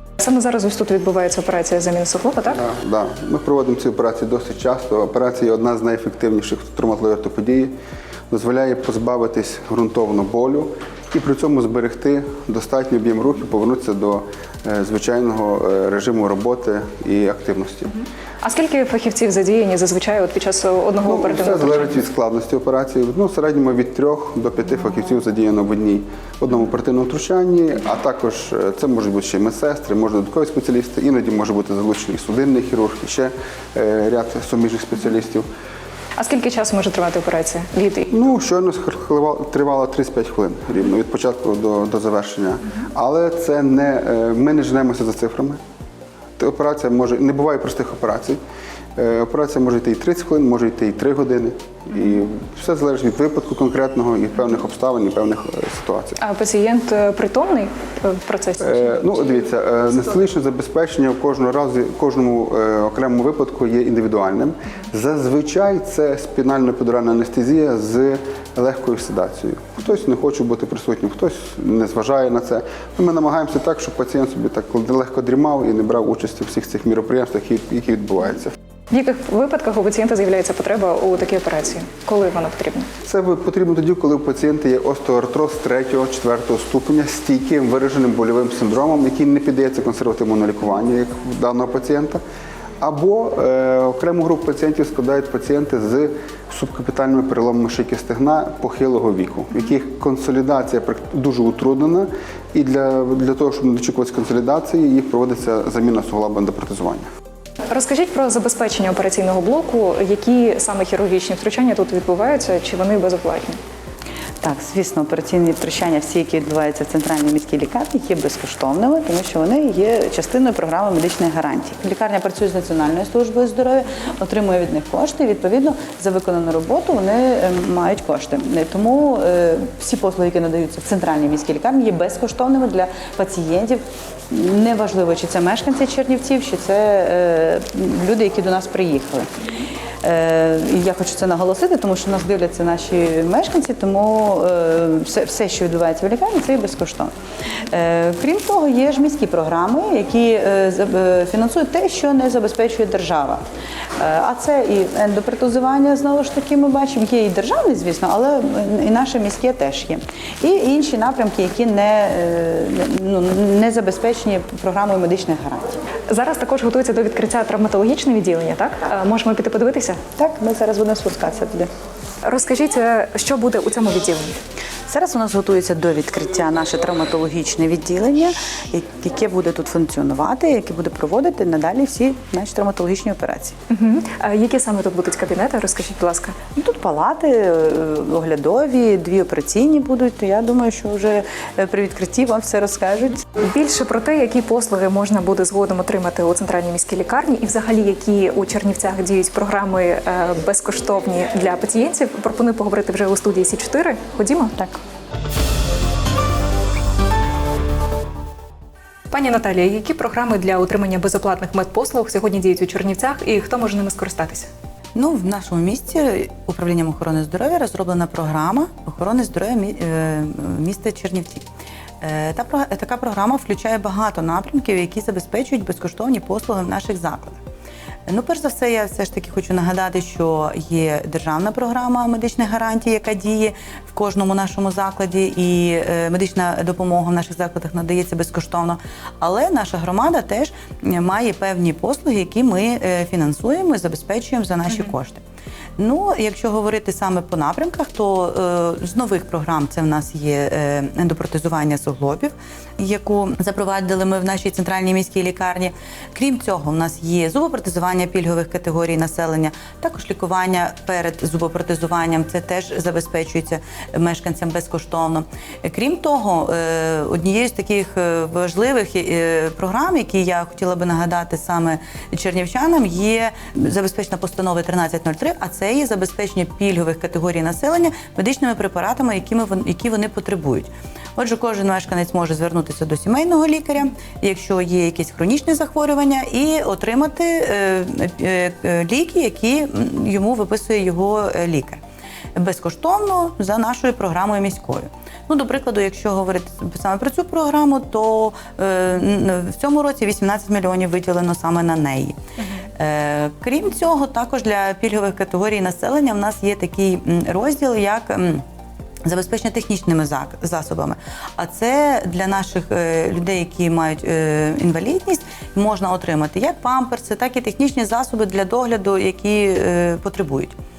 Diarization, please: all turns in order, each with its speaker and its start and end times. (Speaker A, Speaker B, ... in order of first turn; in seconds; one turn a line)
Speaker A: 0.2-2.6
Speaker B: 2.5-7.8
Speaker B: 8.3-17.9
Speaker A: 18.4-21.9
Speaker B: 21.1-35.5
Speaker A: 36.2-38.1
Speaker B: 38.1-45.6
Speaker B: 46.4-48.4
Speaker B: 49.0-56.2
Speaker A: 56.2-58.9
Speaker B: 58.6-78.5
Speaker A: 78.9-82.9
Speaker B: 83.0-92.2
Speaker B: 92.8-107.1
Speaker A: 107.7-113.6
Speaker C: 114.4-139.3
Speaker C: 140.0-153.4
Speaker C: 154.0-165.8
Speaker A: 166.1-170.0
Speaker C: 170.2-171.7
Speaker A: 172.2-174.4
Speaker C: 174.9-183.6
Speaker A: 183.7-186.4
Speaker C: 186.6-193.2
Speaker A: 193.4-204.6
Speaker A: 209.1-214.5
Speaker C: 214.9-221.5
Speaker C: 222.0-227.4
Speaker C: 228.1-245.2
Speaker C: 245.8-291.8
Speaker C: 292.4-302.2
Speaker A: 302.4-302.7
Speaker C: 302.8-308.4
Speaker C: 309.1-320.6